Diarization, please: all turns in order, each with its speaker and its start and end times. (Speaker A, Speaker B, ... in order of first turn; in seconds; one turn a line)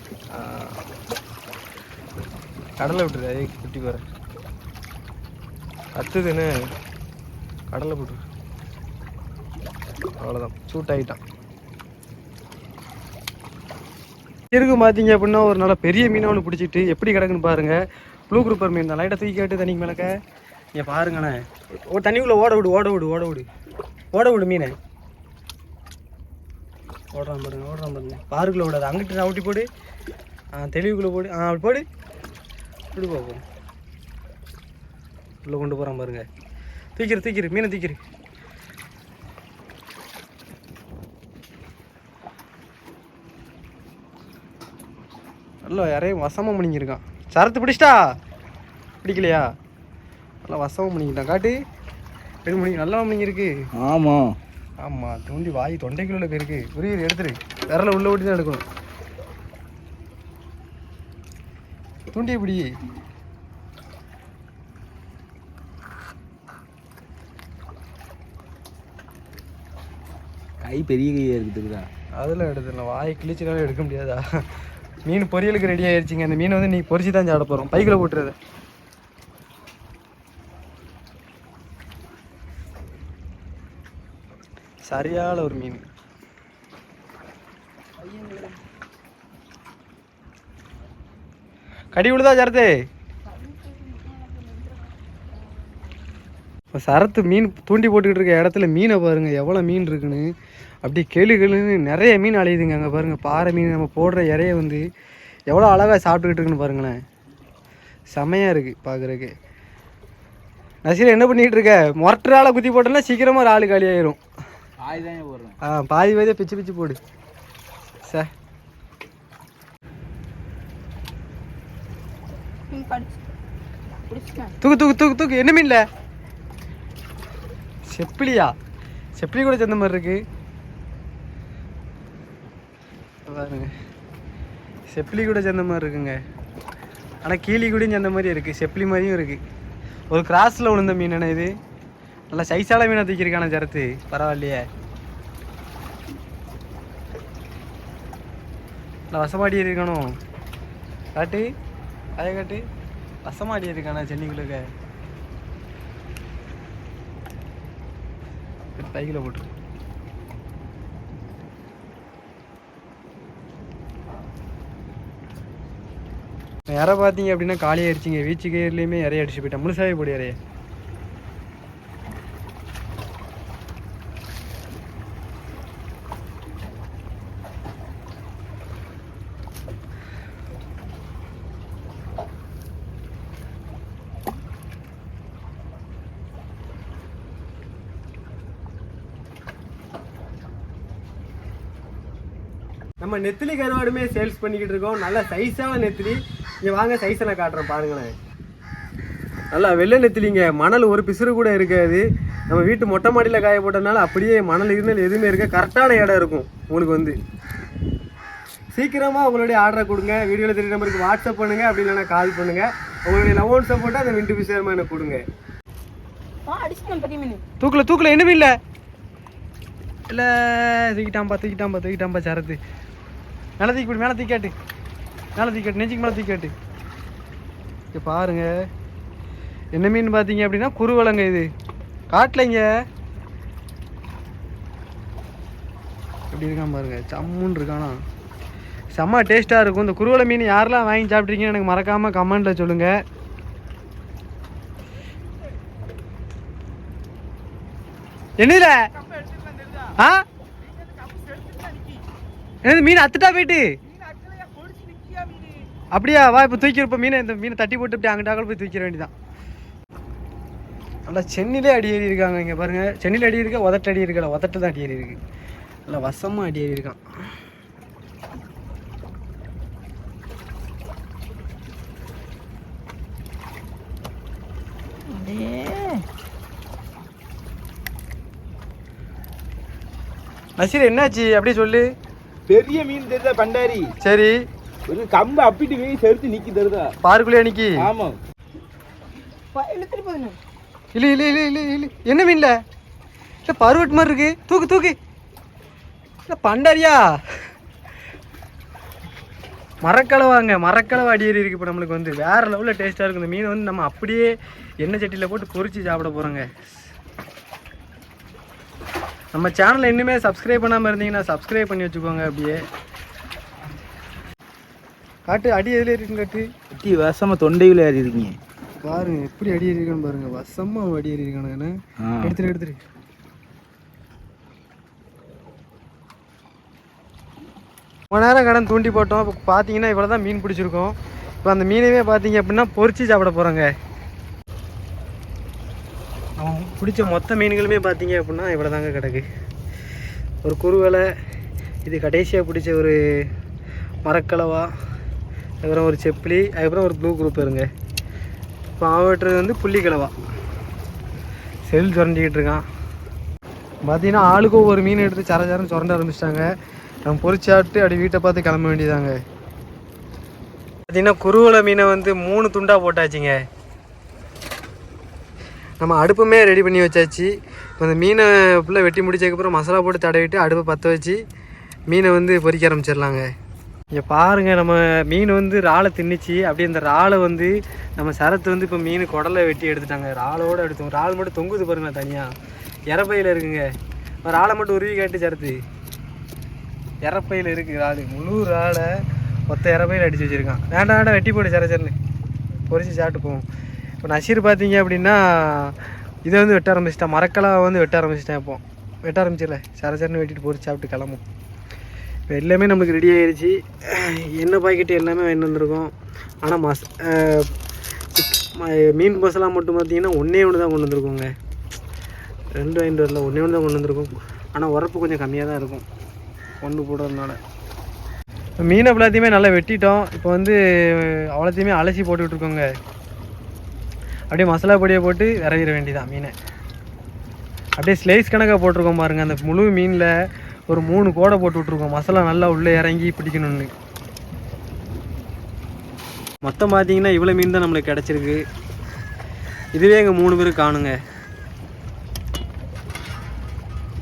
Speaker A: 0.3-0.8
Speaker A: 2.8-4.0
Speaker A: 6.0-6.6
Speaker A: 7.7-8.2
Speaker A: 10.2-11.2
Speaker A: 14.5-17.8
Speaker A: 18.3-20.1
Speaker A: 20.8-23.5
Speaker A: 24.1-24.7
Speaker A: 27.1-29.7
Speaker A: 30.6-31.8
Speaker A: 32.9-33.4
Speaker A: 35.4-36.2
Speaker A: 37.0-38.0
Speaker A: 45.6-48.0
Speaker A: 49.0-49.5
Speaker A: 50.5-51.5
Speaker A: 52.5-53.5
Speaker B: 53.8-54.3
Speaker A: 54.8-58.6
Speaker A: 62.1-62.6
Speaker B: 70.6-71.9
Speaker A: 72.2-74.2
Speaker A: 75.1-78.4
Speaker A: 84.9-85.8
Speaker C: 88.0-88.6
Speaker A: 91.9-92.7
Speaker C: 93.3-94.8
Speaker A: 96.7-100.2
Speaker A: 100.8-104.8
Speaker A: 105.5-107.0
Speaker A: 108.1-109.3
Speaker A: 110.8-114.2
Speaker B: 114.8-115.6
Speaker A: 115.6-117.0
Speaker C: 122.7-123.2
Speaker C: 124.1-124.5
Speaker A: 124.6-125.8
Speaker A: 127.9-128.5
Speaker A: 129.2-130.2
Speaker A: 133.3-133.7
Speaker A: 134.9-136.2
Speaker A: 137.2-139.4
Speaker A: 140.1-141.5
Speaker A: 142.3-144.6
Speaker A: 149.1-150.1
Speaker A: 151.2-151.5
Speaker A: 152.2-152.6
Speaker A: 153.2-154.6
Speaker A: 158.8-159.5
Speaker A: 166.7-170.4
Speaker A: 193.0-198.1
Speaker A: 199.5-207.2
Speaker A: 208.7-215.2
Speaker C: 216.5-217.4
Speaker A: 217.6-218.6
Speaker A: 220.1-222.6
Speaker A: 223.6-224.5
Speaker A: 225.4-226.5
Speaker A: 227.9-228.5
Speaker A: 229.8-231.5
Speaker A: 232.1-232.6
Speaker A: 236.3-237.9
Speaker A: 239.0-242.9
Speaker A: 248.4-248.8
Speaker B: 251.3-251.9
Speaker A: 252.6-253.7
Speaker B: 254.4-255.0
Speaker A: 255.9-259.1
Speaker A: 261.1-265.2
Speaker A: 265.9-267.0
Speaker C: 275.1-276.0
Speaker A: 280.6-281.9
Speaker B: 282.5-283.9
Speaker A: 284.0-284.4
Speaker B: 284.9-286.9
Speaker A: 287.0-287.8
Speaker B: 287.8-288.2
Speaker C: 289.5-290.4
Speaker A: 290.9-292.5
Speaker A: 293.5-295.0
Speaker A: 296.3-297.0
Speaker A: 299.8-306.5
Speaker A: 309.3-312.6
Speaker A: 315.3-316.5
Speaker B: 316.7-318.4
Speaker A: 318.8-321.7
Speaker B: 322.0-322.4
Speaker A: 322.2-322.8
Speaker A: 328.1-333.7
Speaker A: 336.4-339.2
Speaker A: 340.4-341.1
Speaker A: 341.9-343.0
Speaker A: 344.1-344.7
Speaker A: 345.6-347.7
Speaker A: 348.8-350.1
Speaker A: 351.7-352.6
Speaker A: 353.9-356.5
Speaker A: 357.1-359.1
Speaker A: 360.9-363.4
Speaker A: 365.8-371.2
Speaker A: 371.9-373.3
Speaker A: 373.9-382.3
Speaker A: 382.9-383.6
Speaker A: 384.2-385.6
Speaker A: 387.0-388.9
Speaker A: 389.5-391.9
Speaker A: 392.7-393.4
Speaker A: 394.0-401.2
Speaker A: 402.3-405.9
Speaker A: 406.4-407.5
Speaker A: 408.1-411.3
Speaker A: 412.6-415.9
Speaker A: 416.6-417.4
Speaker A: 418.6-422.7
Speaker A: 424.3-426.3
Speaker A: 427.8-430.1
Speaker A: 430.7-433.7
Speaker A: 436.5-438.4
Speaker A: 439.8-440.9